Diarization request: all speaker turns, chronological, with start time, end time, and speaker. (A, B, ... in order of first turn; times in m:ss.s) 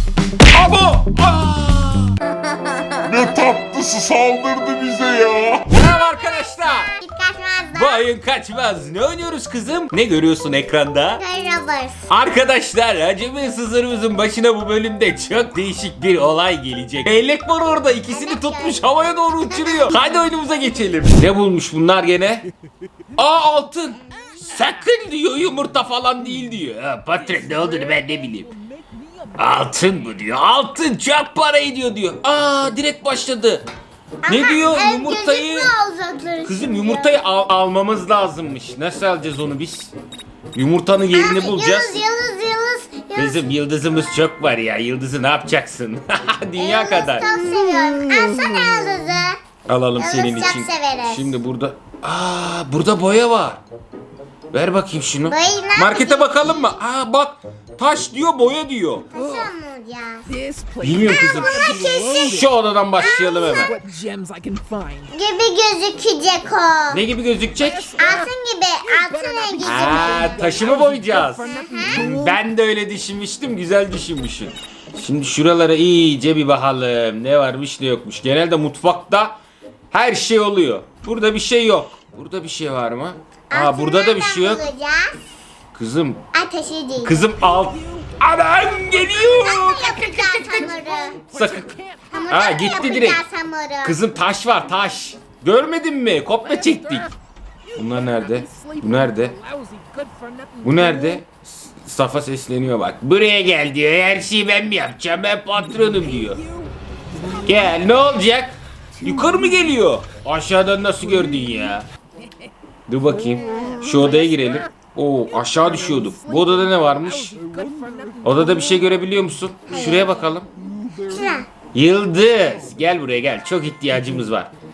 0:00.5-0:02.2 A
0:02.3-0:03.2 B
0:03.1-0:05.7 C
0:05.6-0:06.9 A
0:05.7-0:08.1 B
0:07.7-0:11.2 A
0:11.1-0:12.1 B
0:12.1-0:22.4 A
0:18.1-0:20.1 B
0:23.2-0:28.5 A
0:27.1-0:30.0 D
0:29.4-0:33.6 A
0:34.2-0:37.2 B
0:34.3-0:35.7 A
0:36.4-0:39.9 A
0:40.5-0:42.0 A
0:41.1-0:43.5 B
0:43.1-0:47.3 A
0:46.6-0:49.4 B
0:49.7-0:53.6 A
0:50.0-0:51.4 B
0:54.5-0:59.1 A
0:55.2-0:56.8 B
0:59.1-1:00.3 B
0:59.1-0:59.5 D
1:00.3-1:05.1 D
1:00.8-1:03.7 A
1:01.0-1:02.2 B
1:03.0-1:03.7 B
1:05.1-1:07.0 B
1:06.9-1:07.9 A
1:07.6-1:12.4 D
1:08.0-1:10.6 B
1:09.6-1:19.4 A
1:11.4-1:12.0 B
1:19.9-1:24.7 A
1:23.5-1:25.2 B
1:25.7-1:26.2 A
1:26.3-1:27.2 B
1:27.0-1:30.7 A
1:27.4-1:28.1 D
1:28.8-1:29.6 D
1:29.1-1:31.2 B
1:30.6-1:32.6 D
1:31.3-1:31.7 A
1:32.1-1:34.0 B
1:32.3-1:33.2 A
1:33.8-1:37.1 A
1:36.4-1:37.1 D
1:37.7-1:41.2 D
1:37.8-1:39.3 A
1:40.6-1:46.4 A
1:45.7-1:47.7 D
1:47.4-1:51.8 A
1:52.9-1:57.4 A
1:53.2-1:54.6 D
1:55.3-1:59.0 D
1:58.2-2:00.5 A
1:59.7-2:00.2 B
2:01.0-2:01.5 B
2:01.7-2:04.5 A